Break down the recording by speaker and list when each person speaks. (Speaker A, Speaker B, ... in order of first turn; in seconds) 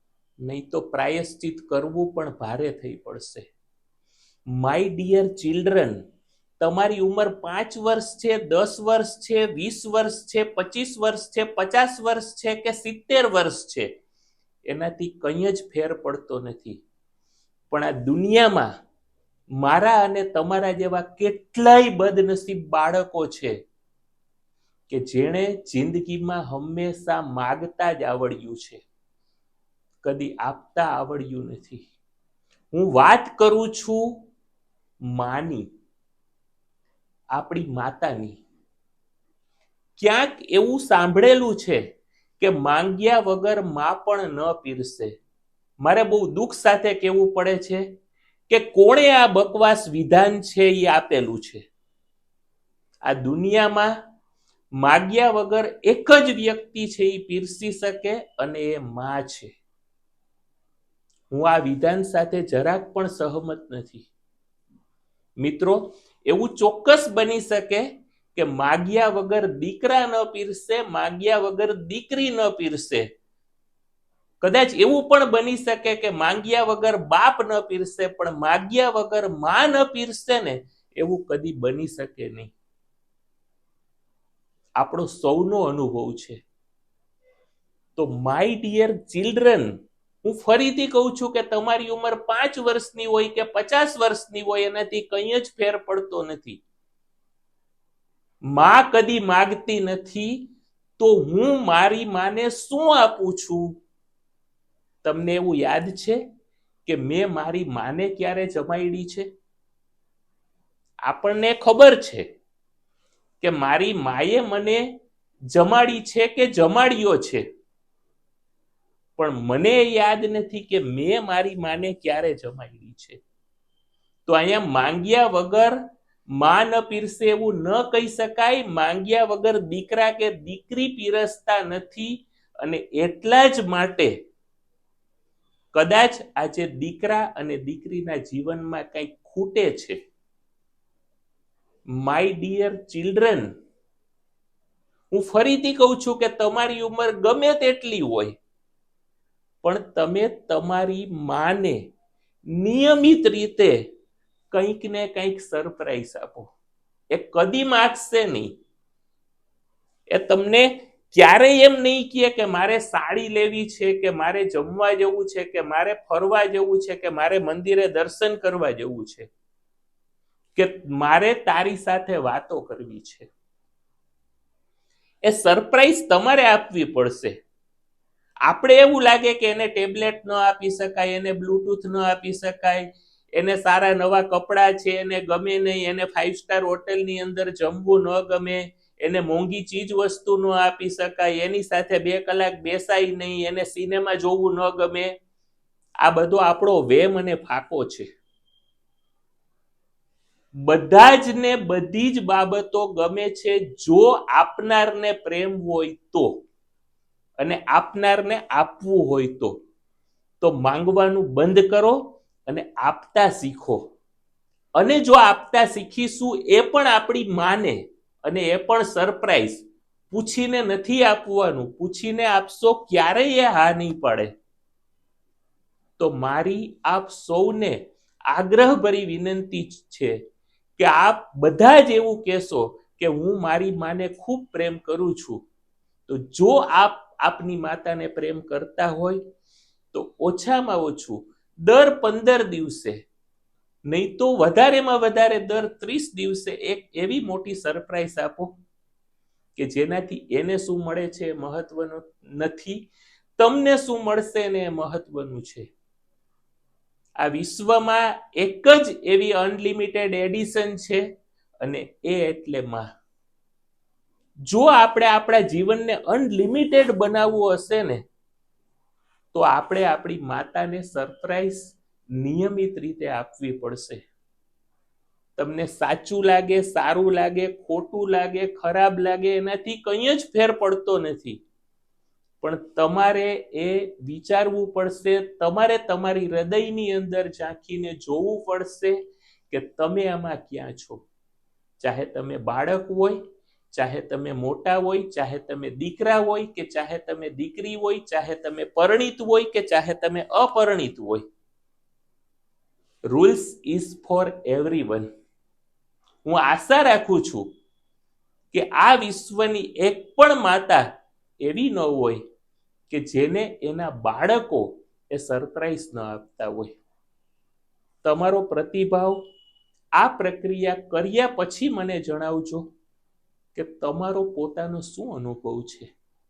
Speaker A: 0.4-3.5, 4.5-6.0, 6.6-13.9, 14.7-16.8, 17.7-18.7, 19.6-23.6, 24.9-28.8, 30.0-31.9, 32.7-34.2, 35.1-35.6, 37.3-38.4, 40.0-41.8, 42.4-45.1, 45.8-47.8, 48.5-51.6, 53.1-53.9, 54.8-59.5, 61.3-64.1, 65.4-73.1, 74.4-82.5, 84.8-86.4, 88.0-89.7, 90.2-96.6, 98.5-100.4, 101.0-103.7, 105.0-106.2, 106.8-109.3, 111.0-112.2, 113.4-114.8, 115.5-117.4, 119.2-123.2, 124.3-125.8, 126.4-134.1, 135.7-140.0, 142.0-143.5, 145.1-148.4, 149.6-151.8, 152.5-153.8, 154.5-156.5, 157.1-158.5, 160.1-169.3, 170.6-173.3, 175.2-177.3, 178.5-195.1, 196.0-198.1, 200.6-206.4, 207.4-209.5, 210.4-213.9, 214.8-224.3, 226.0-227.8, 228.3-230.2, 230.8-235.4, 236.1-239.2, 239.9-243.0, 243.9-248.5, 249.6-252.9, 253.4-255.7, 257.2-261.0, 261.6-262.9, 264.5-268.0, 269.3-274.0, 275.4-281.4, 282.4-288.9, 289.5-291.1, 291.8-293.2, 293.7-301.2, 303.1-305.1, 306.2-307.5, 308.5-310.9, 311.4-312.2, 312.9-316.8, 318.0-319.2, 320.0-322.7, 323.5-325.9